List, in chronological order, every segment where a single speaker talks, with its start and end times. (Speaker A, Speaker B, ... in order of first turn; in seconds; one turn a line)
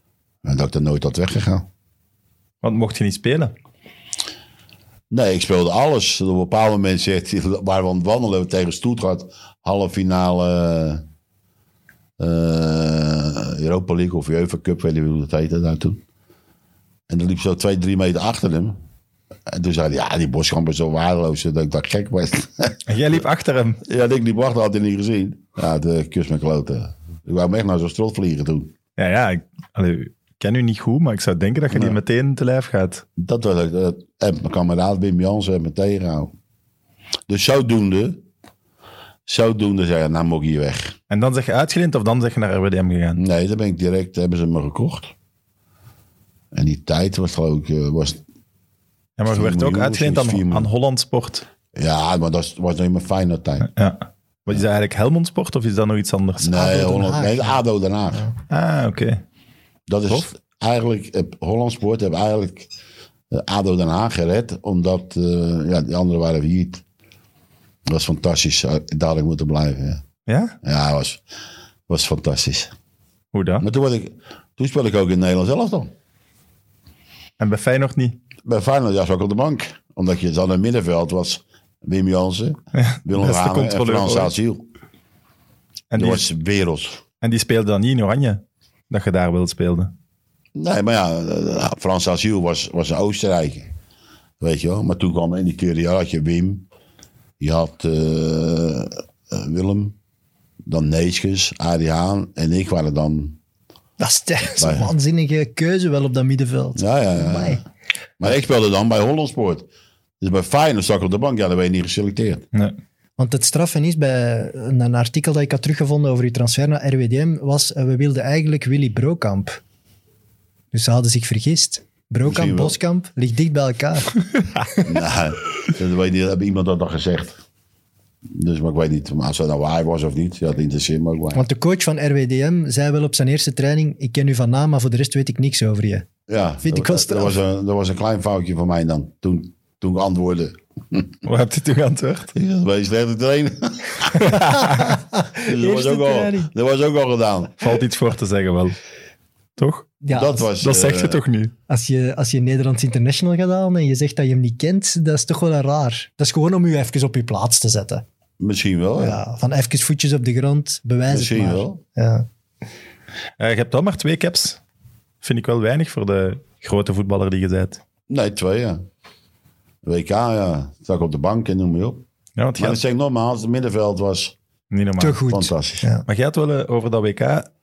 Speaker A: 0.4-1.7
Speaker B: 2.6-3.5
Speaker A: 5.1-11.0
Speaker A: 12.2-16.0
Speaker A: 17.1-18.8
Speaker A: 19.5-22.8
Speaker B: 22.9-23.8
Speaker A: 23.9-28.7
Speaker B: 29.0-33.0
Speaker A: 31.7-32.0
Speaker A: 33.2-36.3
Speaker A: 37.3-38.2
Speaker A: 39.3-41.0
Speaker B: 41.1-43.2
Speaker A: 43.2-45.1
Speaker A: 46.5-48.2
Speaker B: 49.2-51.5
Speaker A: 49.3-50.7
Speaker A: 51.7-53.7
Speaker B: 53.6-56.6
Speaker A: 56.4-58.2
Speaker C: 56.5-57.6
Speaker B: 58.5-59.2
Speaker A: 59.9-62.7
Speaker A: 63.3-66.8
Speaker A: 67.9-70.0
Speaker B: 70.3-70.6
Speaker A: 70.6-71.2
Speaker A: 71.9-72.7
Speaker B: 73.3-73.7
Speaker A: 73.6-75.9
Speaker B: 77.4-78.2
Speaker A: 78.5-84.6
Speaker B: 82.8-84.3
Speaker B: 85.9-86.3
Speaker A: 86.0-87.0
Speaker B: 87.2-89.9
Speaker A: 90.5-93.7
Speaker A: 94.4-96.7
Speaker A: 97.4-100.0
Speaker A: 100.7-103.4
Speaker C: 104.0-107.6
Speaker A: 104.6-104.9
Speaker A: 106.8-107.6
Speaker A: 108.2-109.7
Speaker A: 110.2-112.5
Speaker C: 113.2-119.6
Speaker C: 120.7-125.0
Speaker A: 122.2-122.8
Speaker A: 124.8-127.4
Speaker A: 128.3-131.5
Speaker C: 131.3-136.1
Speaker A: 136.3-141.1
Speaker C: 136.6-137.4
Speaker B: 141.2-142.3
Speaker A: 142.3-144.3
Speaker B: 144.2-144.9
Speaker C: 144.3-146.5
Speaker A: 145.4-147.8
Speaker B: 147.6-148.8
Speaker B: 149.6-150.0
Speaker C: 150.0-150.5
Speaker A: 150.1-151.2
Speaker B: 150.6-151.5
Speaker C: 151.7-158.0
Speaker A: 158.4-159.2
Speaker C: 159.0-162.3
Speaker A: 161.1-161.8
Speaker B: 163.4-164.6
Speaker B: 165.2-167.8
Speaker A: 168.1-168.8
Speaker A: 169.8-172.0
Speaker B: 172.4-172.8
Speaker A: 172.6-174.3
Speaker B: 174.7-175.2
Speaker C: 175.0-176.1
Speaker A: 175.3-175.8
Speaker B: 176.1-177.5